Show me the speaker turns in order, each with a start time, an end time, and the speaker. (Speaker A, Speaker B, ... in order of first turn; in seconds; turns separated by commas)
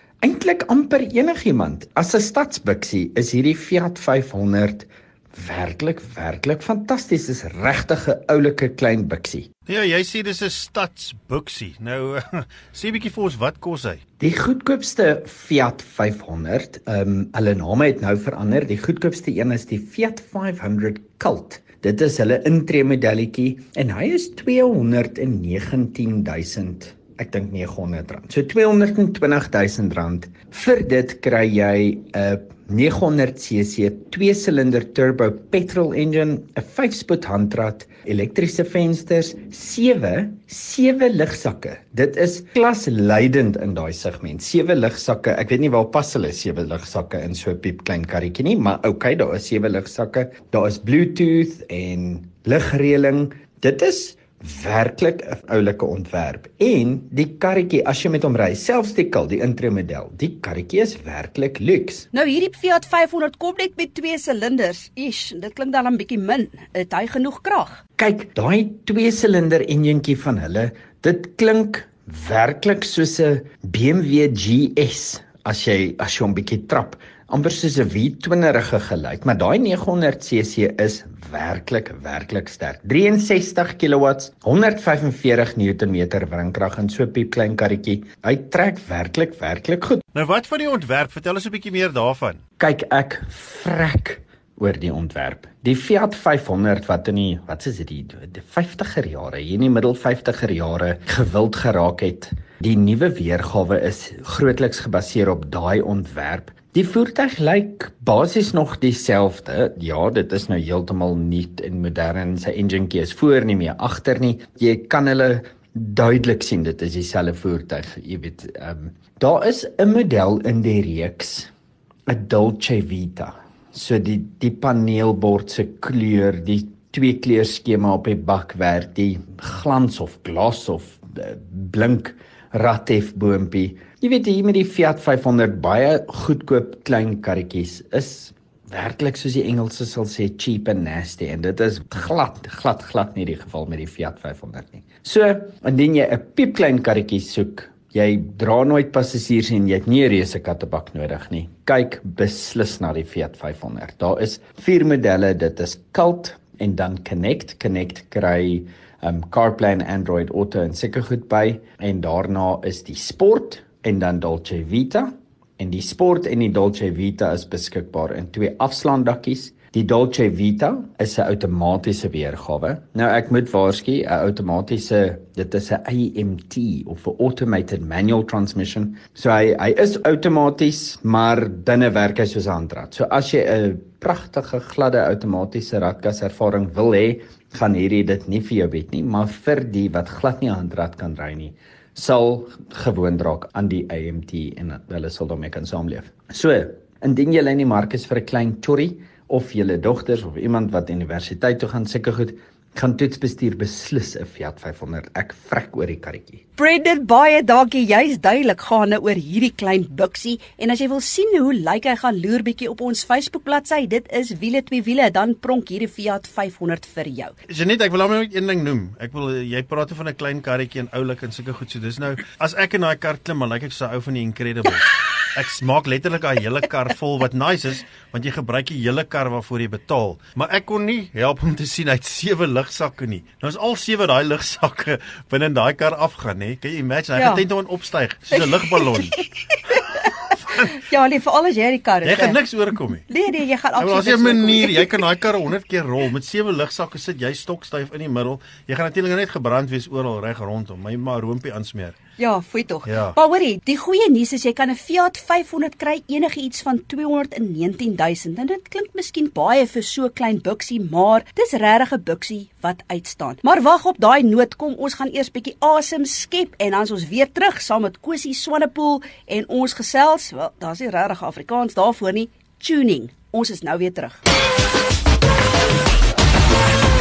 Speaker A: 0.2-9.5, Speaker B: 9.7-14.0, Speaker A: 14.2-62.1, Speaker C: 62.1-67.8, Speaker A: 68.0-90.0, Speaker B: 90.1-92.4, Speaker A: 92.6-121.5, Speaker A: 122.1-206.4, Speaker C: 206.6-217.3, Speaker B: 217.5-239.2, Speaker C: 237.2-237.4, Speaker C: 238.3-242.4, Speaker B: 240.3-240.7, Speaker B: 242.0-243.0, Speaker C: 243.1-244.9, Speaker B: 243.8-252.0, Speaker C: 252.2-274.2, Speaker B: 252.8-253.2